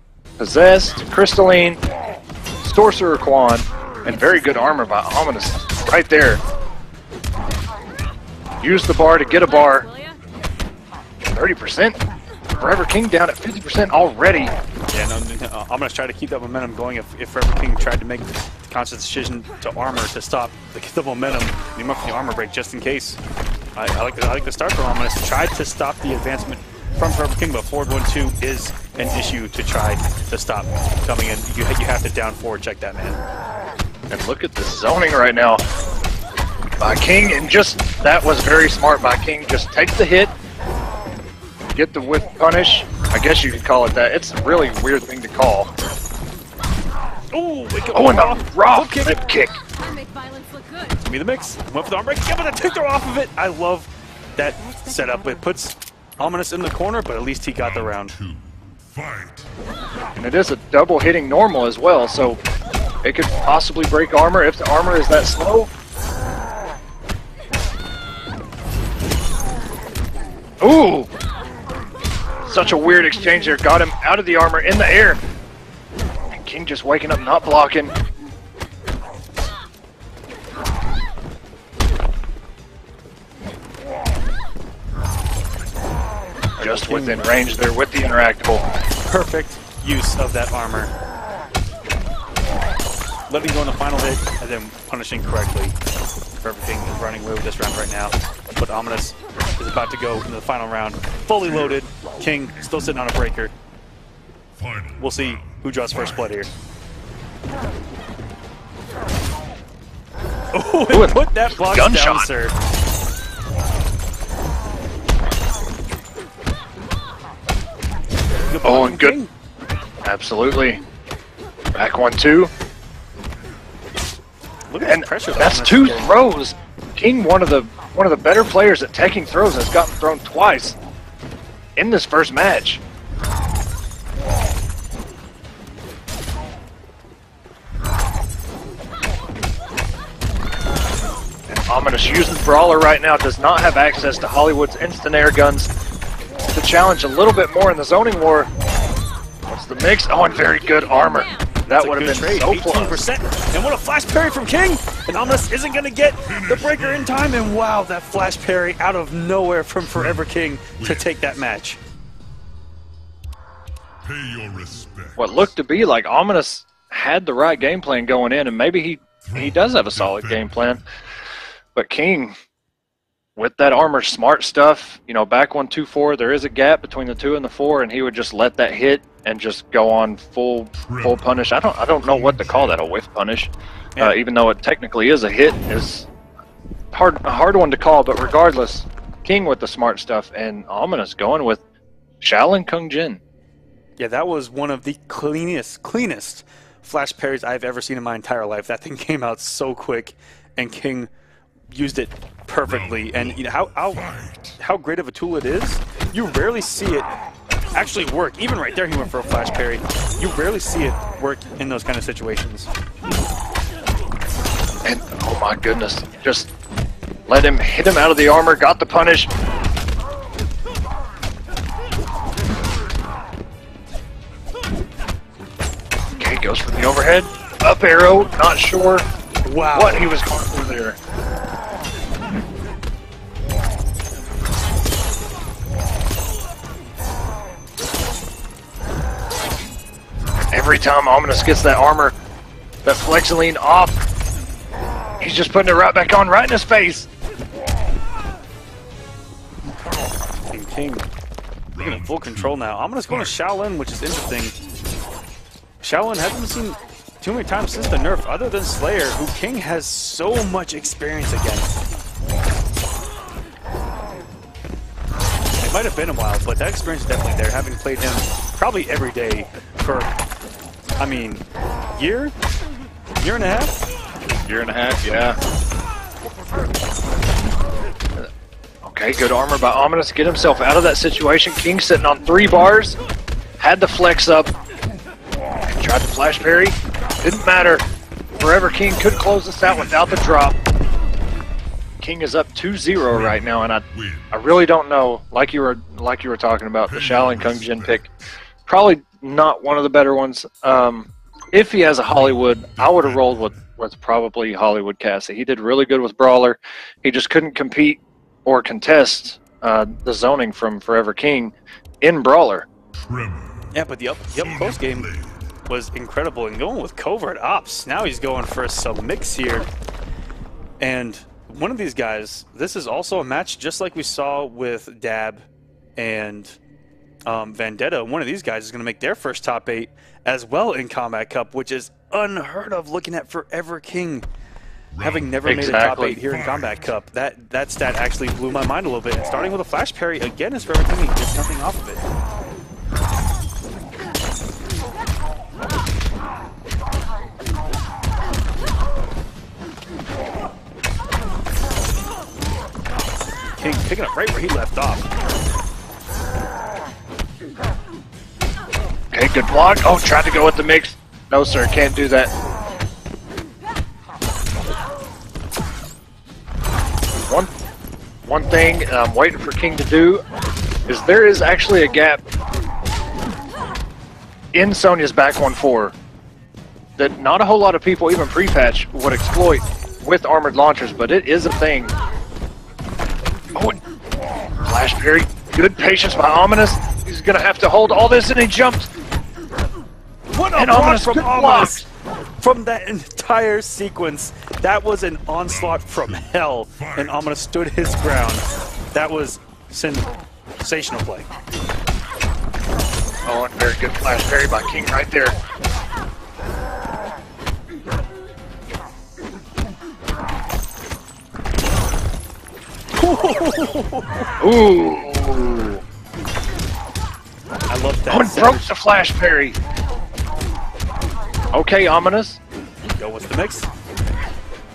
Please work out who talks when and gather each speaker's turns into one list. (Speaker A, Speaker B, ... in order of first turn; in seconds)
Speaker A: 0.4-1.8, 2.6-6.4, 8.6-9.9, 11.3-12.0, 12.6-14.5, 34.1-35.6, 36.8-40.3, 41.7-45.7, 47.9-49.5, 60.2-62.4, 63.0-65.7, 70.6-71.1, 72.5-75.2, 76.3-77.9, 86.6-88.6, 110.9-112.3, 118.6-119.2, 120.0-120.8, 121.7-122.5, 124.8-130.8, 131.8-132.8, 141.5-145.7, 146.5-148.5, 149.5-153.0, 165.2-170.8, 171.7-172.3, 173.3-186.1, 186.9-191.6, 192.2-193.2, 214.8-216.5, 217.3-219.3, 226.2-229.1, 229.7-231.0, 240.5-242.1, 242.8-244.0, 245.2-247.1, 274.4-275.4, 278.8-283.0, 283.6-284.5, 285.7-287.8, 288.4-290.6, 292.0-298.1, 298.6-312.7, 335.4-336.2, 359.1-362.3, 368.2-370.2, 370.9-372.2, 374.5-375.9, 377.0-381.9, 384.6-388.9, 390.6-391.9, 403.2-405.4, 414.4-415.8, 418.1-419.6, 421.5-422.4
Speaker B: 14.9-23.2, 23.8-33.2, 47.3-49.2, 51.0-58.1, 86.6-87.3, 89.1-90.9, 93.3-95.7, 96.4-103.5, 105.0-106.5, 110.5-112.5, 118.5-119.3, 124.7-126.1, 151.7-161.8, 194.0-201.1, 201.7-204.0, 204.6-207.1, 207.7-212.7, 229.4-230.1, 250.5-251.1, 251.8-254.6, 255.8-261.7, 265.6-270.1, 271.0-271.4, 271.9-272.3, 273.2-273.8, 313.7-315.1, 315.7-319.7, 320.8-325.4, 326.0-326.6, 327.3-334.2, 335.0-342.0, 353.6-355.1, 390.3-391.9, 392.4-400.1, 400.6-401.3, 413.0-414.3, 417.7-418.7, 422.8-423.7
Speaker C: 57.6-59.5, 104.6-105.5, 156.3-157.2, 160.8-161.1, 164.0-165.4, 169.2-170.6, 180.9-181.2, 182.1-182.7, 202.7-203.3, 203.9-204.6, 251.7-252.6, 293.9-294.3, 296.9-298.0, 302.6-303.6, 313.1-313.7, 314.4-315.3, 334.9-335.4, 336.3-336.7, 395.5-397.1